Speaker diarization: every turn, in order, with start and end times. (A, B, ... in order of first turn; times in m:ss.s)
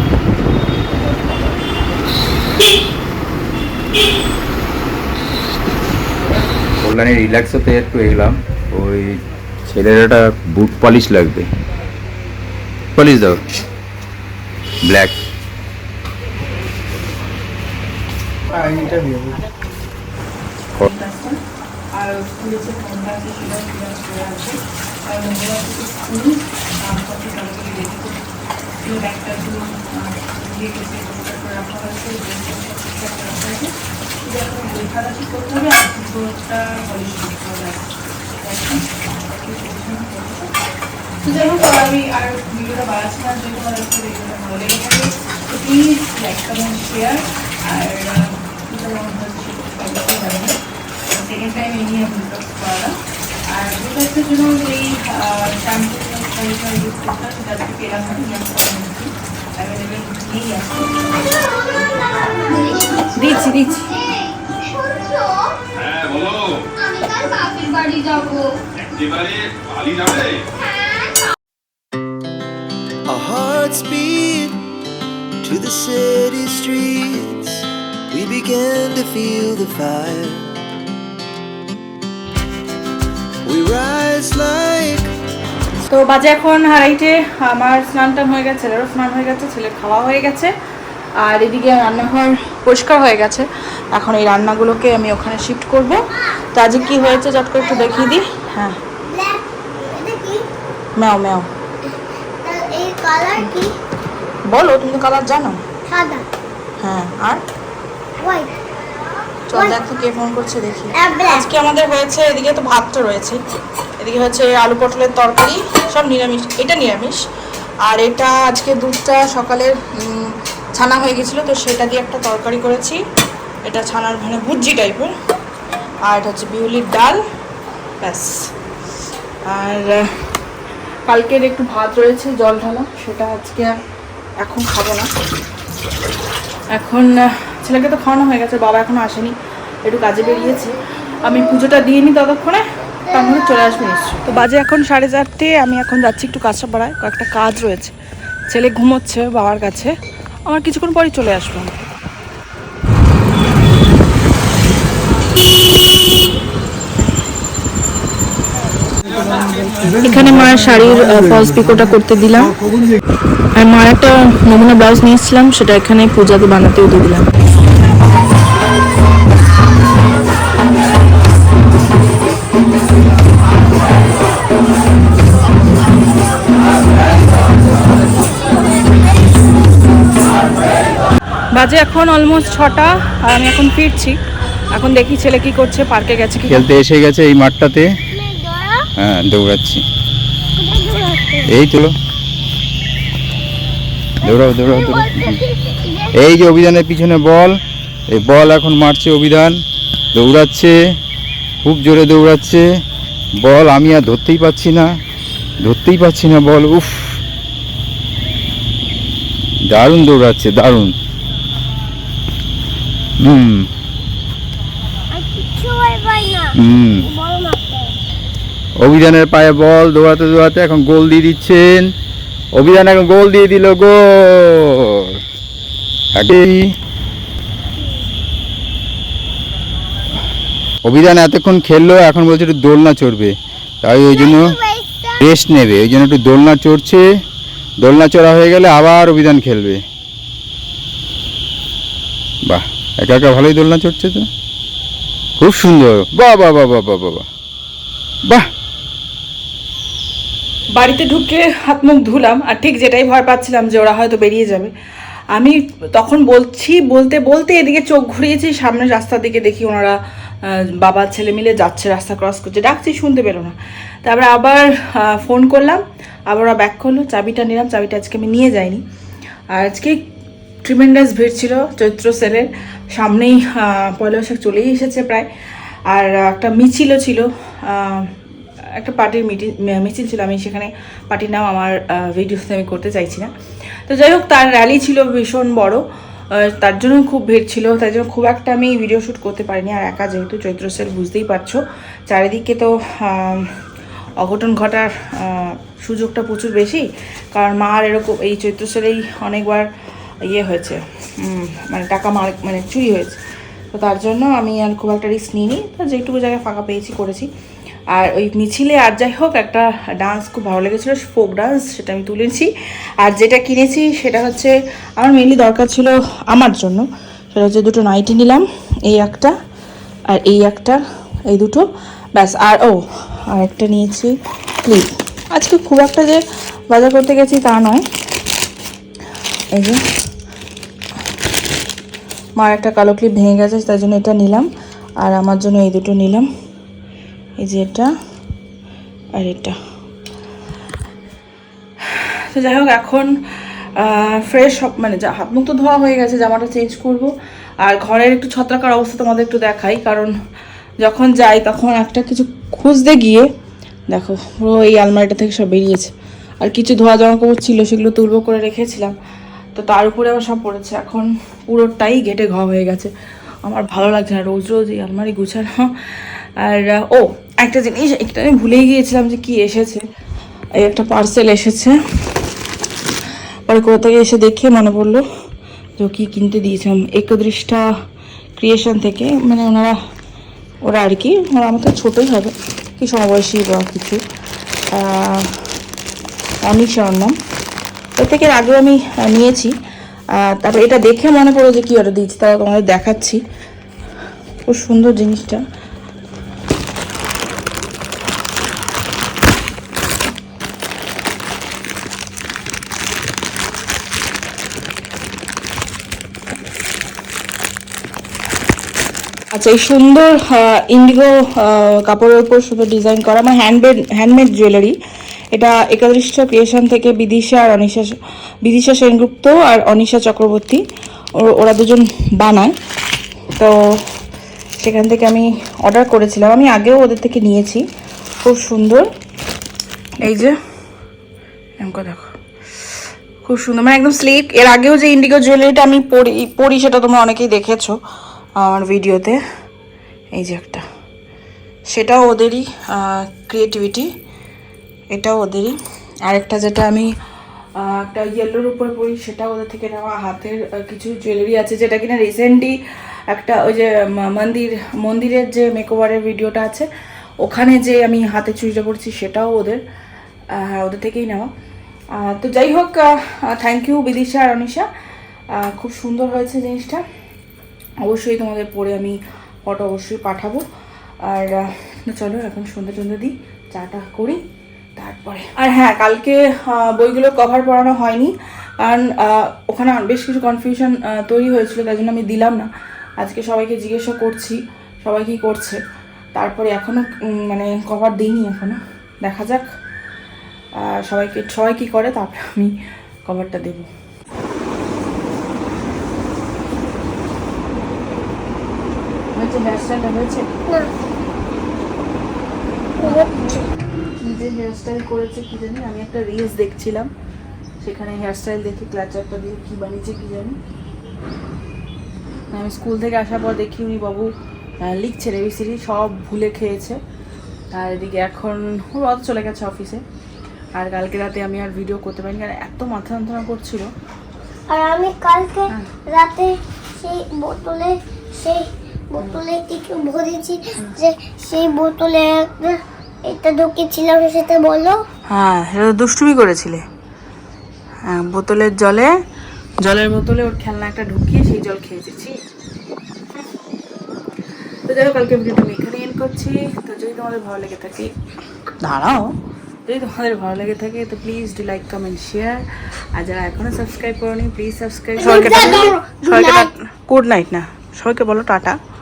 0:06.8-0:11.5 A
0:12.9-0:13.4 A
0:14.8-0:15.2 A
0:18.6-0:19.2 B
0:20.8-0:21.4 B
0:21.9-0:28.2 B
0:28.8-0:37.9 B
0:38.4-0:40.5 B
0:41.2-0:50.6 B
0:51.1-0:52.9 B
0:53.5-1:01.2 B
1:01.2-1:03.3 C
1:03.1-1:03.9 B
1:03.9-1:05.5 C
1:05.9-1:06.5 D
1:06.8-1:08.5 C
1:09.0-1:10.3 D
1:13.0-1:14.7 E
1:15.4-1:20.5 E
1:23.4-1:25.1 E
1:25.8-1:30.5 B
1:31.2-1:38.8 B
1:36.2-1:38.2 C
1:39.0-1:40.5 C
1:41.0-1:41.5 B
1:42.4-1:43.7 C
1:44.5-1:45.6 B
1:45.9-1:46.3 C
1:46.8-1:47.4 B
1:48.2-1:48.7 C
1:49.5-1:53.4 B
1:49.5-1:49.8 C
1:50.9-1:51.5 C
1:54.0-1:57.2 B
1:57.8-2:03.0 B
2:03.6-2:05.1 B
2:06.0-2:07.2 B
2:08.0-2:08.5 B
2:09.4-2:10.1 B
2:11.1-2:13.8 B
2:14.4-2:15.1 B
2:16.7-2:27.9 B
2:28.5-2:29.9 B
2:30.5-2:31.7 B
2:40.0-2:42.6 B
2:43.5-2:47.3 B
3:01.5-3:04.2 B
3:04.7-3:06.6 B
3:06.5-3:07.9 A
3:08.1-3:08.9 C
3:09.0-3:09.8 A
3:10.6-3:11.5 C
3:11.5-3:11.9 A
3:14.2-3:16.1 C
3:14.2-3:15.4 A
3:16.1-3:17.5 A
3:18.1-3:19.6 A
3:20.1-3:20.7 A
3:21.6-3:22.6 A
3:23.4-3:24.9 A
3:25.6-3:27.2 A
3:29.7-3:30.9 A
3:33.2-3:33.6 A
3:35.1-3:37.9 C
3:36.6-3:37.1 A
3:38.8-3:41.9 A
3:42.5-3:45.2 A
3:46.1-3:46.7 A
3:50.8-3:54.6 A
3:54.1-3:55.2 C
3:55.2-3:57.0 A
3:57.8-3:59.8 A
4:02.4-4:04.3 A
4:05.4-4:07.2 A
4:10.7-4:14.7 B
4:15.3-4:28.8 B
4:29.5-4:30.0 B
4:30.6-4:35.3 B
4:35.9-4:38.1 B
4:38.8-4:43.3 B
4:43.9-4:45.8 B
4:46.4-4:53.5 B
4:54.2-4:59.7 B
5:00.2-5:03.2 B
5:03.7-5:07.3 B
5:07.9-5:12.5 B
5:13.0-5:19.3 B
5:20.1-5:21.6 B
5:22.2-5:22.8 B
5:23.3-5:27.8 B
5:29.5-5:29.8 B
5:32.4-5:34.5 B
5:35.0-5:36.3 B
5:37.4-5:37.9 B
5:39.2-5:39.6 B
5:41.8-5:43.1 B
5:43.8-5:50.1 B
5:50.8-5:53.2 B
5:53.9-5:58.9 B
5:59.5-6:02.9 B
6:03.4-6:05.7 B
6:06.4-6:09.8 B
6:10.6-6:11.8 B
6:13.5-6:15.0 B
6:15.8-6:17.6 B
6:18.4-6:19.8 B
6:20.6-6:24.0 B
6:24.7-6:25.4 B
6:26.4-6:27.2 B
6:28.0-6:29.5 B
6:30.2-6:33.2 B
6:34.5-6:35.4 B
6:49.3-6:54.8 B
6:55.3-7:00.6 B
7:01.2-7:02.5 B
7:04.6-7:07.6 B
7:08.2-7:08.9 B
7:10.0-7:10.4 B
7:11.6-7:12.2 B
7:13.2-7:17.8 B
7:18.4-7:19.2 B
7:20.1-7:20.6 B
7:21.7-7:23.9 B
7:24.9-7:26.9 B
7:27.6-7:32.6 B
7:33.1-7:36.7 B
7:37.2-7:39.6 B
7:40.3-7:41.3 B
7:42.0-7:44.7 B
7:45.4-7:46.8 B
7:47.8-7:50.4 B
7:51.0-7:54.2 B
7:54.8-8:02.5 B
8:03.0-8:05.6 B
8:06.1-8:09.5 B
8:10.7-8:12.5 B
8:13.1-8:13.6 B
8:19.1-8:20.3 B
8:22.8-8:23.4 B
8:22.8-8:23.4 C
8:24.0-8:26.9 B
8:27.6-8:30.4 B
8:32.3-8:34.1 B
8:34.6-8:36.8 B
8:37.5-8:39.8 B
8:40.5-8:43.7 B
8:44.5-8:54.8 C
8:55.1-8:56.6 B
8:57.8-8:58.9 B
8:59.6-9:02.2 B
9:04.7-9:07.9 B
9:08.6-9:09.1 B
9:09.6-9:18.6 B
9:15.0-9:16.5 C